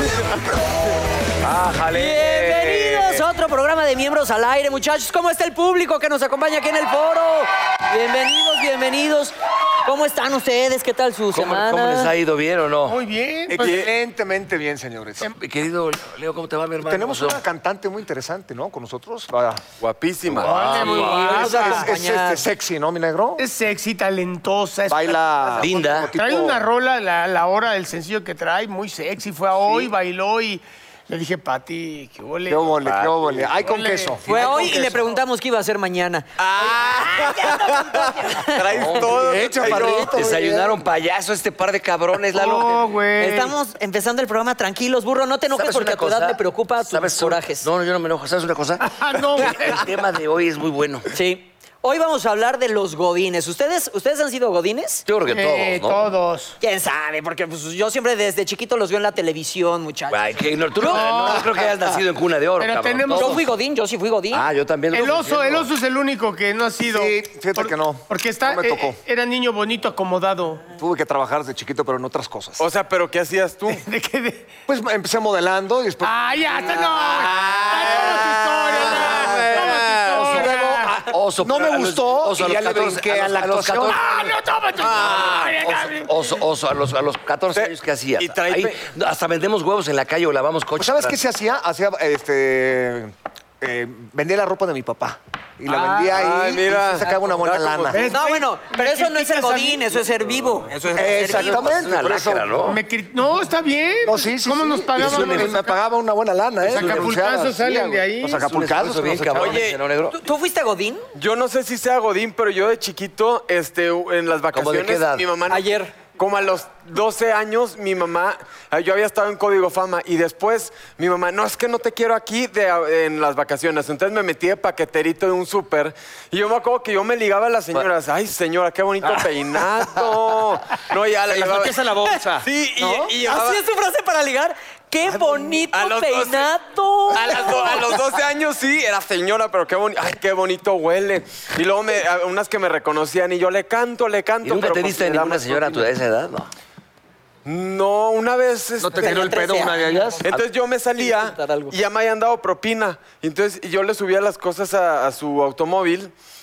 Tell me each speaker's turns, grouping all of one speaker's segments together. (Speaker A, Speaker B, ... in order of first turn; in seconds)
Speaker A: 1.4-3.2, 11.3-13.0, 15.4-17.4, 20.4-21.6, 25.6-26.1, 38.7-42.9, 45.5-51.1, 55.0-56.1, 60.1-63.5, 64.3-65.7, 80.9-84.1, 85.4-91.2, 101.0-102.8, 105.0-105.6, 108.4-110.1, 114.5-115.3, 144.4-146.5
Speaker B: 1.9-12.1, 20.8-22.5, 34.2-38.6, 43.2-47.7, 51.1-55.0, 56.6-61.1, 63.1-64.4, 98.1-101.7, 110.1-111.0, 115.5-116.0, 133.1-137.9, 149.0-150.3, 151.0-151.8
Speaker C: 12.9-14.0, 20.4-21.9, 23.4-32.9, 33.5-34.9, 42.3-43.5, 48.8-49.9, 55.3-56.6, 60.8-61.6, 62.6-63.4, 64.9-70.6, 73.7-74.5, 76.0-80.9, 83.9-86.4, 97.9-100.0, 102.6-105.7, 106.6-108.4
Speaker D: 13.5-15.3, 16.9-19.6, 21.3-23.4, 24.9-26.6, 32.5-34.7, 39.0-40.8, 66.9-69.0, 70.7-72.6, 74.7-76.7, 78.9-84.1, 90.8-98.0, 100.9-102.6, 104.0-109.6, 131.3-133.1, 148.8-150.4
Speaker E: 13.6-13.9, 19.8-20.5, 32.8-33.5, 36.4-40.2, 72.6-73.8, 76.7-80.8, 84.8-85.5, 87.5-88.8, 95.7-98.0, 109.3-109.8, 111.1-133.6, 135.7-136.5, 137.1-145.8, 147.4-149.2, 150.2-156.1